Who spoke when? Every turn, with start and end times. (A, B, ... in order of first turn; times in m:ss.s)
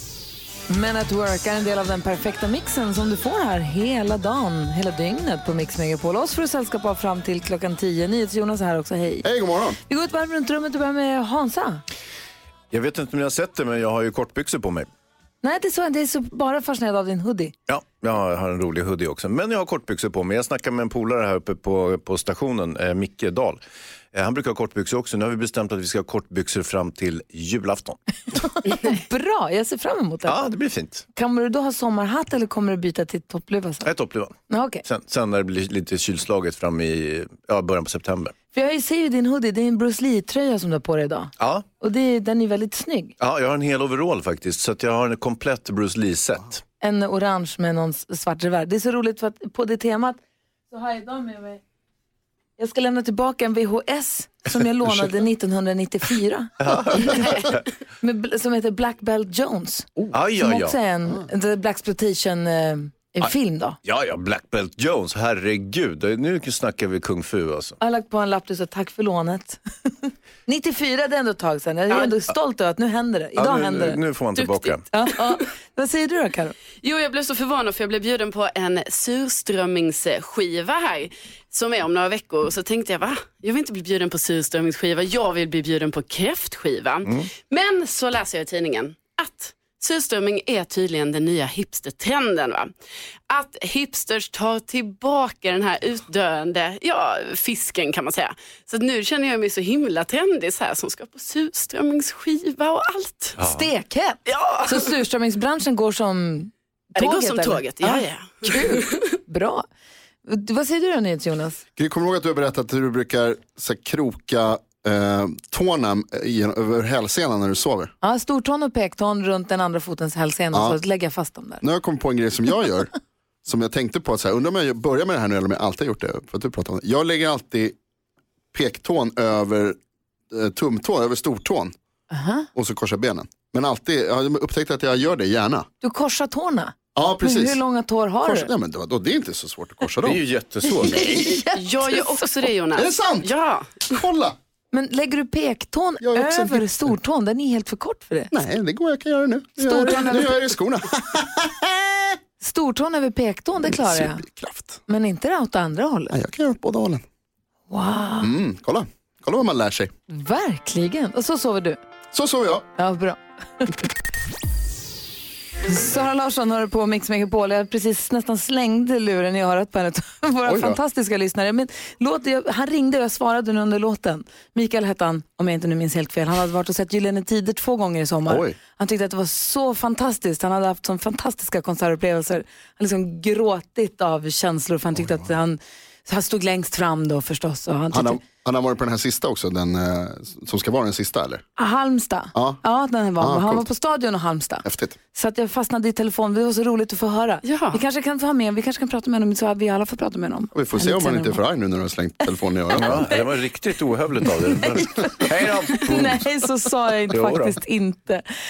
0:00.7-0:09.2 A
0:09.2-0:09.8 B
0:09.9-0:11.8 A
0:12.7-0:14.9 C
0:15.4-0:17.5 A
0:17.7-0:23.6 C
0:24.1-0:28.0 C
0:28.7-0:30.4 A
0:30.2-0:31.0 C
0:31.2-0:33.9 A
0:33.8-0:38.3 C
0:34.5-0:34.8 A
0:38.5-0:43.1 A
0:41.4-0:41.6 C
0:43.2-0:46.6 C
0:46.8-0:50.2 A
0:50.7-0:51.6 A
0:52.6-1:03.8 A
0:56.6-0:57.6 C
1:00.1-1:00.8 C
1:03.8-1:07.8 C
1:07.8-1:14.0 A
1:13.4-1:14.8 C
1:14.4-1:14.8 D
1:14.9-1:16.6 A
1:16.8-1:32.7 D
1:27.0-1:27.3 C
1:33.3-1:43.4 D
1:43.4-1:43.7 C
1:43.4-1:49.6 A
1:44.3-1:44.9 D
1:47.0-1:49.0 D
1:50.3-1:51.6 A
1:51.8-1:57.9 B
1:58.0-2:01.6 A
2:00.5-2:00.8 B
2:01.6-2:02.9 B
2:03.4-2:07.8 B
2:08.5-2:09.8 B
2:10.3-2:11.8 B
2:12.1-2:12.5 A
2:12.5-2:15.7 B
2:15.8-2:18.5 A
2:17.0-2:17.6 B
2:18.2-2:20.2 B
2:20.0-2:21.3 C
2:20.8-2:22.0 A
2:21.5-2:23.8 D
2:22.8-2:23.3 B
2:23.9-2:24.4 B
2:24.7-2:28.3 A
2:26.0-2:26.7 B
2:28.3-2:31.8 B
2:29.6-2:30.4 A
2:32.4-2:34.2 A
2:33.7-2:34.8 B
2:34.9-2:36.2 A
2:36.1-2:37.0 B
2:37.7-2:38.3 A
2:38.2-2:39.9 B
2:40.1-2:41.8 A
2:42.1-2:42.7 B
2:42.8-2:43.8 A
2:45.7-3:08.2 A
2:50.4-2:50.8 B
2:58.3-2:58.6 B
3:05.0-3:05.3 B
3:07.9-3:11.4 B
3:11.6-3:21.4 A
3:12.3-3:12.6 B
3:13.2-3:13.6 B
3:14.6-3:15.0 B
3:17.4-3:17.8 D
3:20.5-3:23.1 B
3:22.8-3:26.2 C
3:24.8-3:28.2 A
3:27.1-3:27.6 C